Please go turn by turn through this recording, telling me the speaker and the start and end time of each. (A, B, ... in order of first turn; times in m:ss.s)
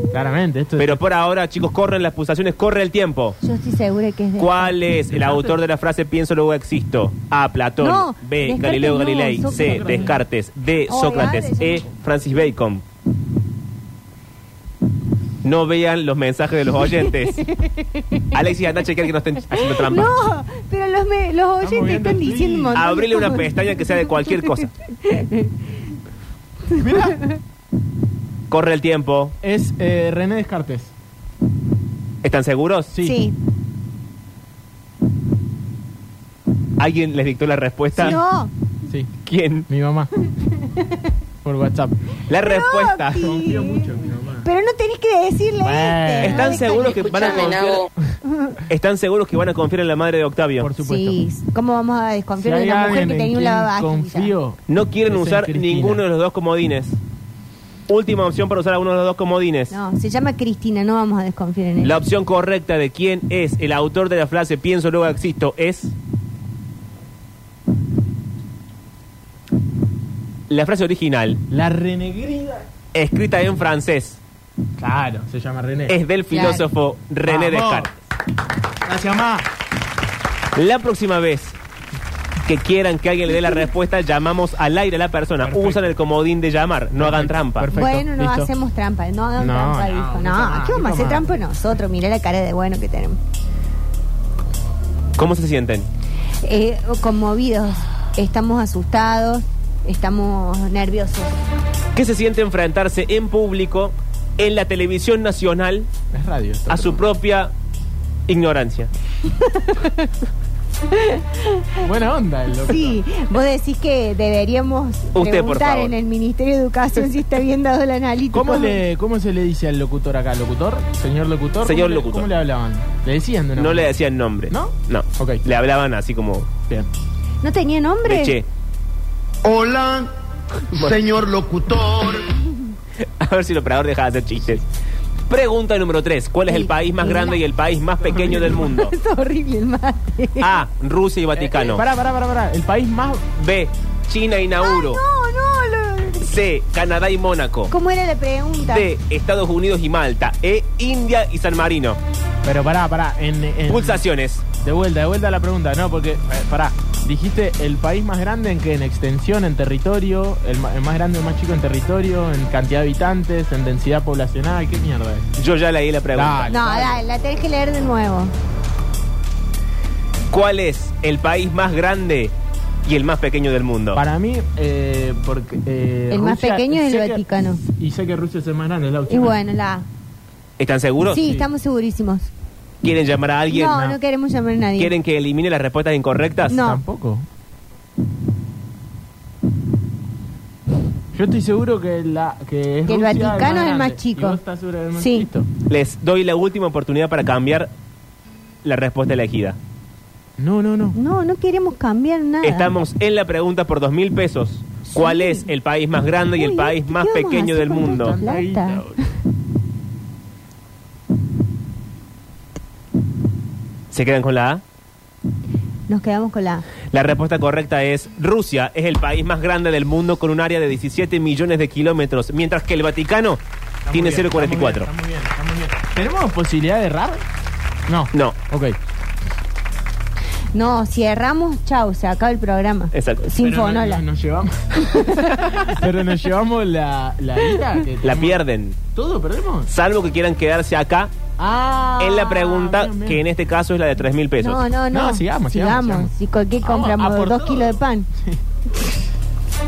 0:00.1-0:01.0 A
0:00.8-0:03.4 B
0:03.4-0:04.9 C
0:04.4-0:12.8 B
0:05.1-0:05.6 A
0:07.8-0:10.1 C
0:09.5-0:10.2 A
0:10.9-0:11.9 C
0:15.4-0:17.4 B
0:17.0-0:18.3 C
0:18.3-0:20.1 B
0:19.5-0:25.5 C
0:21.6-0:22.8 A
0:22.7-0:24.7 B
0:26.7-0:27.3 C
0:26.8-0:27.2 A
0:28.5-0:29.3 B
0:29.4-0:30.9 A
0:32.2-0:32.9 B
0:32.9-0:33.2 A
0:33.0-0:33.3 C
0:36.8-0:38.2 B
0:37.9-0:38.2 A
0:38.0-0:38.5 C
0:39.2-0:39.7 B
0:39.7-0:40.1 A
0:40.6-0:41.1 C
0:41.4-0:42.0 A
0:42.3-0:43.4 B
0:42.3-0:47.1 C
0:43.1-0:44.5 A
0:45.6-0:46.6 A
0:46.2-0:47.9 B
0:48.2-0:48.6 C
0:48.7-0:50.7 B
0:50.6-0:51.2 A
0:50.8-0:54.3 C
0:52.4-0:56.0 A
0:54.7-0:57.0 B
0:57.9-0:59.8 B
0:59.7-1:02.0 C
1:01.8-1:05.9 B
1:10.5-1:11.4 B
1:11.5-1:12.6 A
1:12.9-1:14.2 B
1:14.8-1:16.0 A
1:15.9-1:17.9 B
1:16.3-1:16.6 C
1:17.2-1:17.9 A
1:18.8-1:19.5 A
1:20.5-1:21.6 B
1:22.4-1:27.7 B
1:25.4-1:26.0 A
1:26.9-1:28.5 A
1:27.7-1:33.2 C
1:29.4-1:31.4 A
1:35.2-1:35.9 B
1:36.4-1:41.4 C
1:41.9-1:45.9 B
1:46.1-1:47.0 A
1:46.7-1:47.5 B
1:48.3-1:48.9 B
1:49.3-1:50.1 C
1:50.9-1:51.8 C
1:51.8-1:53.0 A
1:52.7-1:58.8 C
1:55.1-1:55.9 B
1:58.3-2:03.9 A
2:01.6-2:02.3 B
2:03.6-2:06.5 B
2:04.5-2:05.4 A
2:07.4-2:08.4 C
2:08.0-2:08.5 B
2:09.4-2:10.1 D
2:10.7-2:12.3 D
2:13.2-2:14.6 B
2:15.3-2:18.9 B
2:16.5-2:17.4 C
2:18.0-2:18.7 A
2:18.3-2:20.6 C
2:20.4-2:21.9 B
2:21.4-2:23.4 A
2:23.4-2:25.0 B
2:24.6-2:26.3 C
2:26.2-2:27.7 B
2:27.7-2:28.9 C
2:28.6-2:32.0 B
2:32.4-2:34.0 A
2:33.7-2:34.4 B
2:34.6-2:45.3 A
2:45.4-2:46.5 B
2:46.1-2:47.0 A
2:46.5-2:48.3 C
2:50.3-2:52.3 B
2:52.8-2:54.0 B
2:53.9-2:59.4 A
2:56.1-2:57.6 C
2:59.1-2:59.8 C
3:00.6-3:01.4 B
3:01.0-3:02.3 C
3:02.8-3:04.0 B
3:03.5-3:04.9 C
3:04.8-3:06.6 B
3:06.5-3:06.8 C
3:06.5-3:07.3 A
3:11.1-3:15.5 A
3:12.9-3:14.4 C
3:14.9-3:15.3 C
3:15.7-3:17.7 B
3:18.6-3:19.6 B
3:20.4-3:21.0 A
3:20.9-3:22.7 C
3:22.4-3:28.2 B
3:24.8-3:25.5 C
3:26.3-3:29.0 C
3:27.7-3:29.0 A
3:33.9-3:34.6 B
3:35.9-3:36.7 C
3:36.9-3:44.9 B
3:43.8-3:47.2 A
3:47.9-3:48.8 A
3:50.5-3:54.0 C
3:52.9-3:53.2 B
3:53.3-3:58.4 A
3:54.8-3:55.4 C
3:58.0-3:58.8 B
3:58.9-3:59.7 A
3:59.7-4:01.1 B
4:01.4-4:03.2 A
4:02.0-4:04.6 B
4:04.4-4:08.1 C
4:04.9-4:08.4 A